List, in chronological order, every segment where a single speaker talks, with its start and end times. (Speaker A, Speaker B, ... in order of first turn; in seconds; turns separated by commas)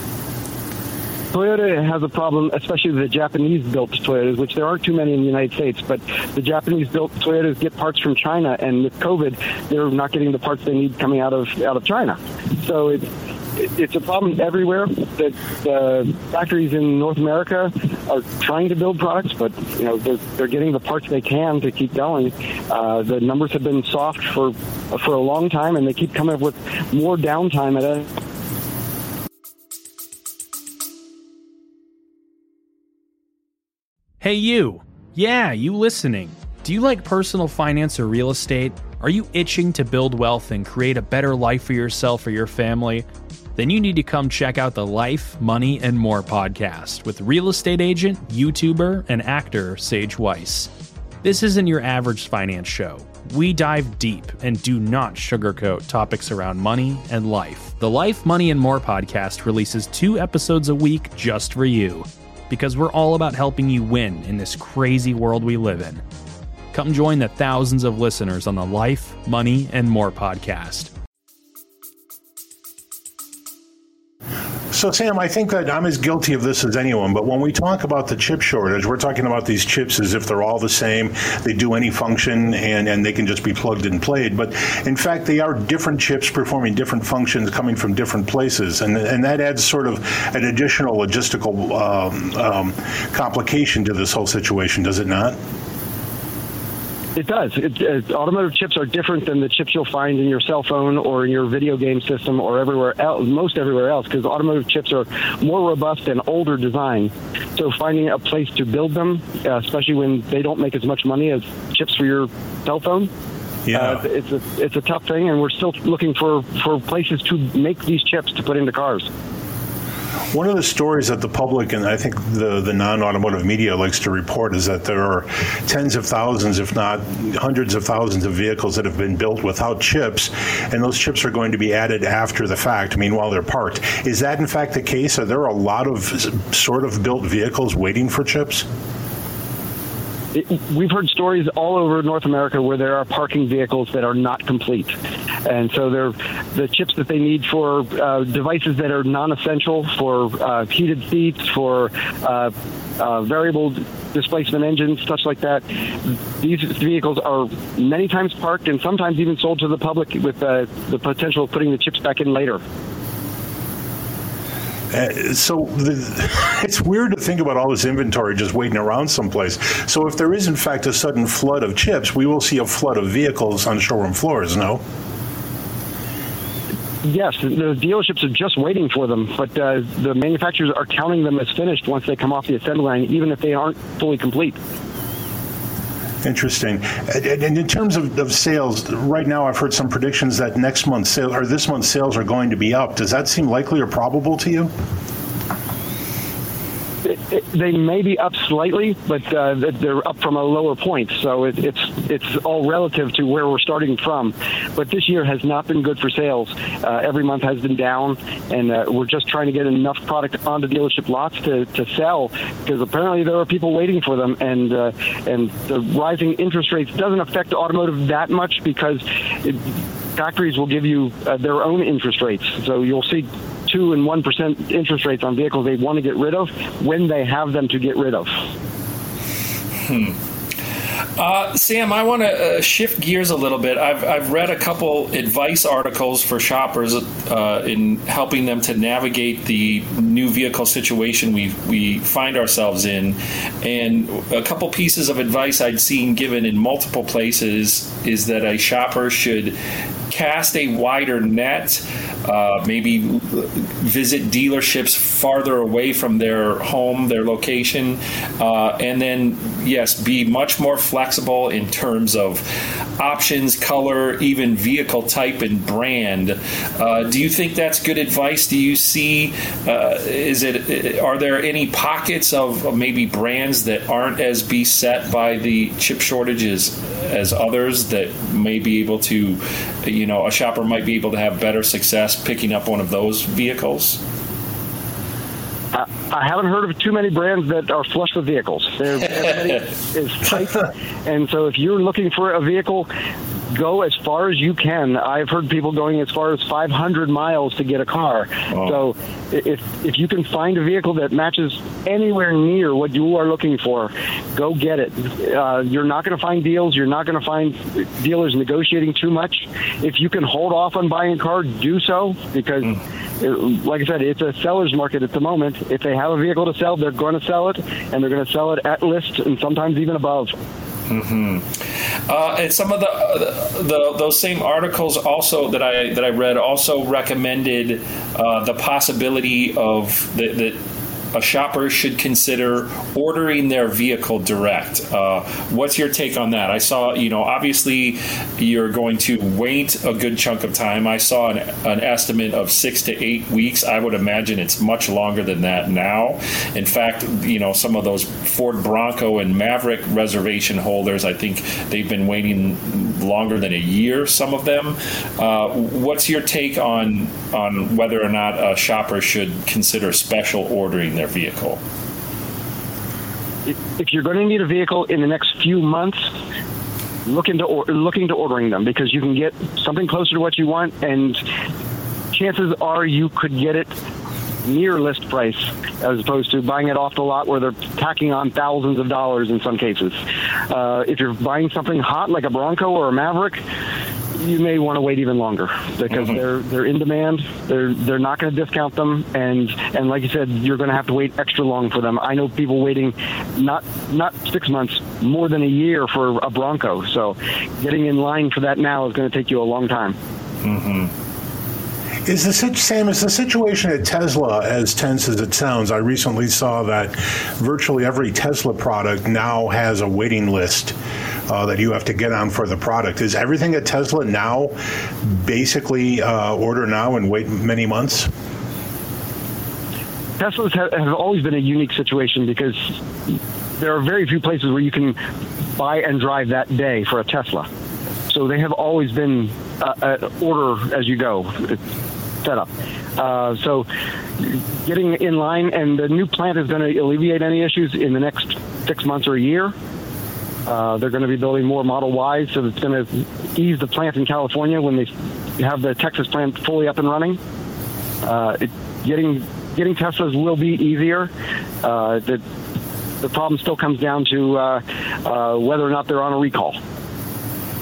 Speaker A: 1.3-28.1, Speaker B: 34.2-50.7, Speaker B: 51.2-66.0, Speaker B: 66.7-70.9, Speaker C: 74.7-95.4, Speaker A: 97.2-113.1, Speaker C: 113.7-114.0, Speaker A: 113.7-119.1, Speaker C: 120.3-138.7, Speaker A: 140.3-144.9, Speaker A: 145.4-162.6, Speaker C: 164.9-174.8, Speaker A: 177.0-184.6, Speaker C: 186.2-194.7, Speaker A: 197.0-219.6, Speaker A: 220.2-228.3, Speaker D: 229.8-230.2, Speaker D: 231.2-249.6, Speaker D: 250.1-262.5, Speaker D: 263.0-284.0, Speaker A: 285.7-292.9, Speaker A: 293.5-320.3, Speaker D: 298.5-298.8, Speaker D: 320.9-330.6, Speaker D: 331.1-361.6, Speaker A: 363.4-366.1, Speaker A: 367.1-371.2, Speaker A: 372.1-373.7, Speaker A: 374.4-380.0, Speaker A: 380.5-383.4, Speaker A: 384.1-399.9, Speaker D: 400.4-400.9, Speaker C: 402.1-410.8, Speaker C: 411.3-418.1, Speaker A: 420.2-422.7, Speaker A: 423.6-425.0, Speaker A: 425.6-427.5, Speaker A: 428.1-431.6, Speaker A: 432.2-433.7, Speaker A: 434.2-439.5, Speaker A: 440.5-447.2, Speaker A: 448.0-451.1, Speaker A: 451.6-452.2, Speaker A: 453.0-456.6